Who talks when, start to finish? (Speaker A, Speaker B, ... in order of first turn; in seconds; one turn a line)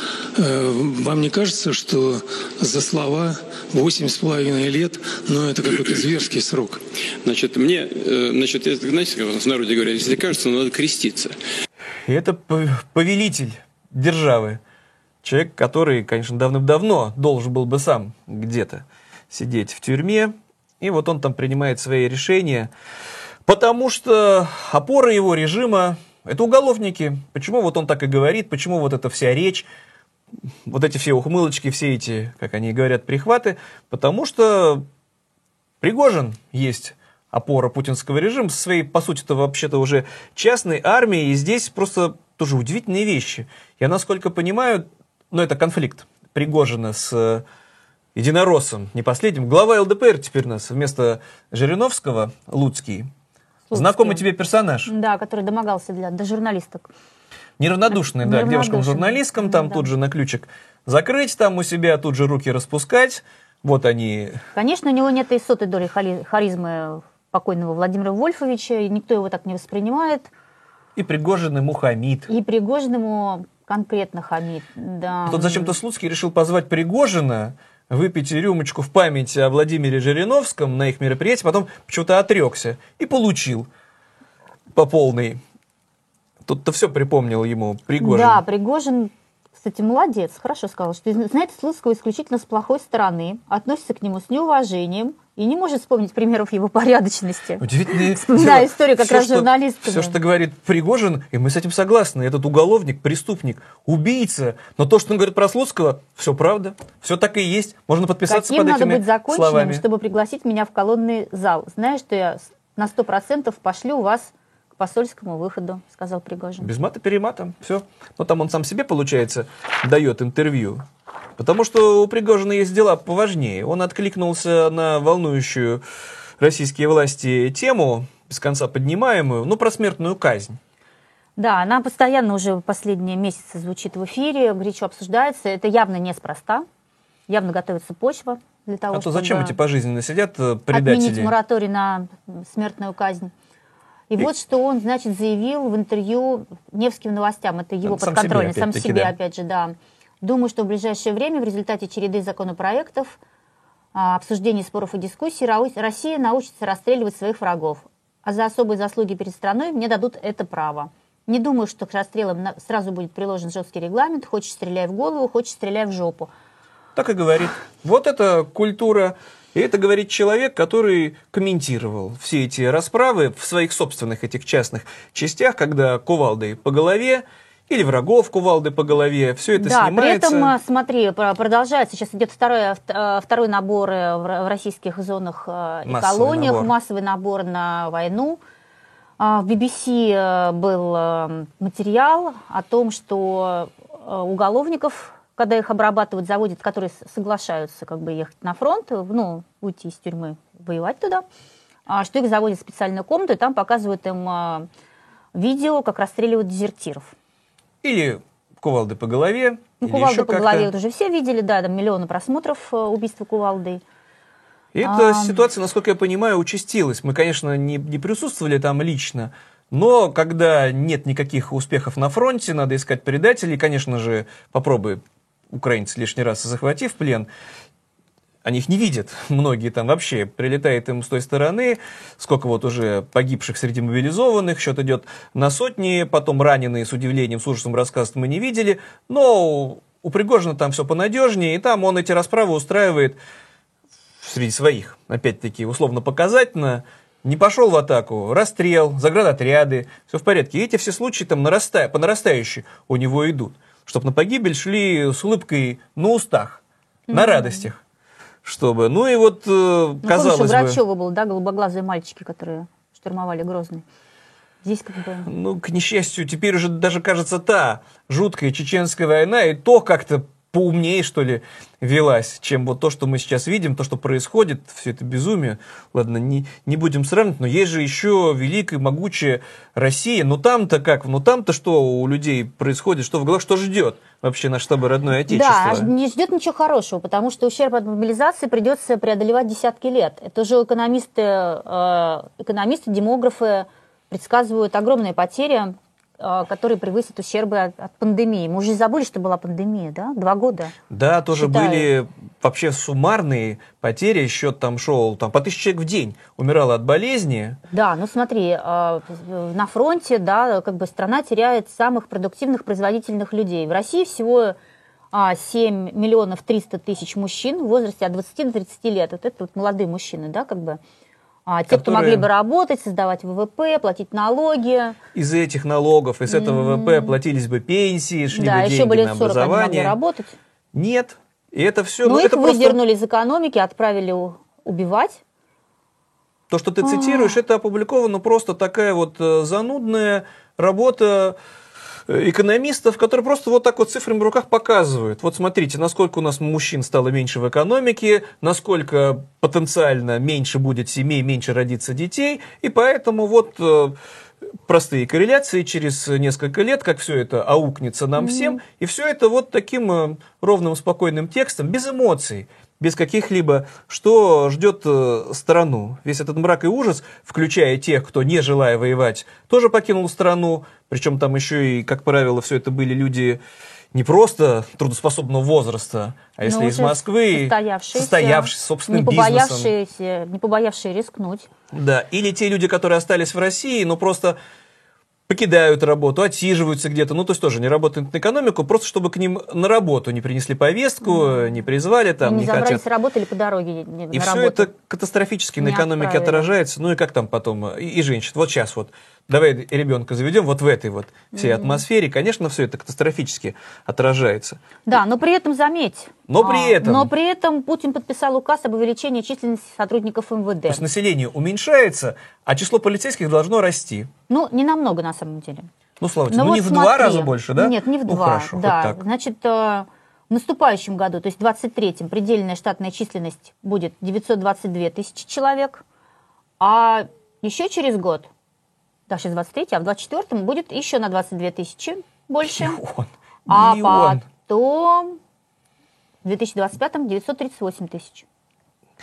Speaker A: 0.3-6.8
Speaker B: 7.2-11.3
Speaker C: 12.0-14.6
Speaker C: 15.2-22.7
Speaker C: 23.4-29.7
Speaker C: 30.6-34.8
Speaker C: 35.8-47.4
Speaker C: 48.1-53.1
Speaker D: 53.7-54.2
Speaker C: 53.7-54.9
Speaker D: 54.9-56.9
Speaker C: 57.6-64.4
Speaker D: 57.9-59.9
Speaker D: 64.5-70.3
Speaker C: 71.0-72.3
Speaker D: 72.3-75.8
Speaker C: 75.3-83.7
Speaker C: 84.7-85.4
Speaker C: 86.4-88.4
Speaker D: 88.0-100.2
Speaker C: 97.6-109.8
Speaker D: 108.3-116.7
Speaker C: 116.6-120.8
Speaker C: 121.4-125.8
Speaker C: 126.4-130.6
Speaker D: 131.4-136.7
Speaker D: 137.3-139.6
Speaker C: 138.9-141.3
Speaker D: 140.7-143.3
Speaker D: 144.1-153.2
Speaker C: 147.8-149.1
Speaker D: 153.9-166.3
Speaker C: 166.9-180.5
Speaker D: 179.5-188.4
Speaker C: 185.8-186.7
Speaker D: 189.2-201.2
Speaker D: 201.9-204.7
Speaker D: 205.3-207.1
Speaker C: 207.8-210.7
Speaker D: 209.8-213.8
Speaker C: 214.7-225.0
Speaker D: 214.8-215.4
Speaker C: 225.5-227.3
Speaker C: 228.4-243.2
Speaker C: 244.2-257.8
Speaker D: 257.1-257.7
Speaker C: 258.4-260.8
Speaker D: 260.0-263.8
Speaker D: 264.6-265.3
Speaker C: 265.2-285.9
Speaker D: 285.3-300.7
Speaker C: 300.9-307.6
Speaker D: 301.3-301.9
Speaker D: 307.7-314.6
Speaker D: 315.1-320.8
Speaker D: 321.5-325.0
Speaker C: 321.7-322.3
Speaker C: 325.1-330.0
Speaker D: 326.3-327.2
Speaker D: 328.3-330.3
Speaker C: 330.7-332.8
Speaker D: 332.0-335.2
Speaker C: 336.5-341.4
Speaker D: 336.8-337.4
Speaker C: 342.1-354.0
Speaker C: 354.6-373.4
Speaker D: 358.2-358.6
Speaker C: 373.9-379.7
Speaker D: 376.4-381.5
Speaker C: 381.7-384.4
Speaker C: 385.3-392.8
Speaker D: 391.0-391.6
Speaker D: 392.2-394.7
Speaker C: 394.1-404.6
Speaker D: 395.6-396.5
Speaker D: 401.3-401.8
Speaker D: 404.9-410.8
Speaker C: 406.3-407.1
Speaker C: 410.7-414.1
Speaker D: 414.3-415.7
Speaker C: 416.0-419.0
Speaker D: 416.3-425.8
Speaker D: 426.6-428.3
Speaker D: 429.1-432.8
Speaker C: 432.4-434.2
Speaker D: 433.5-435.2
Speaker D: 436.2-438.2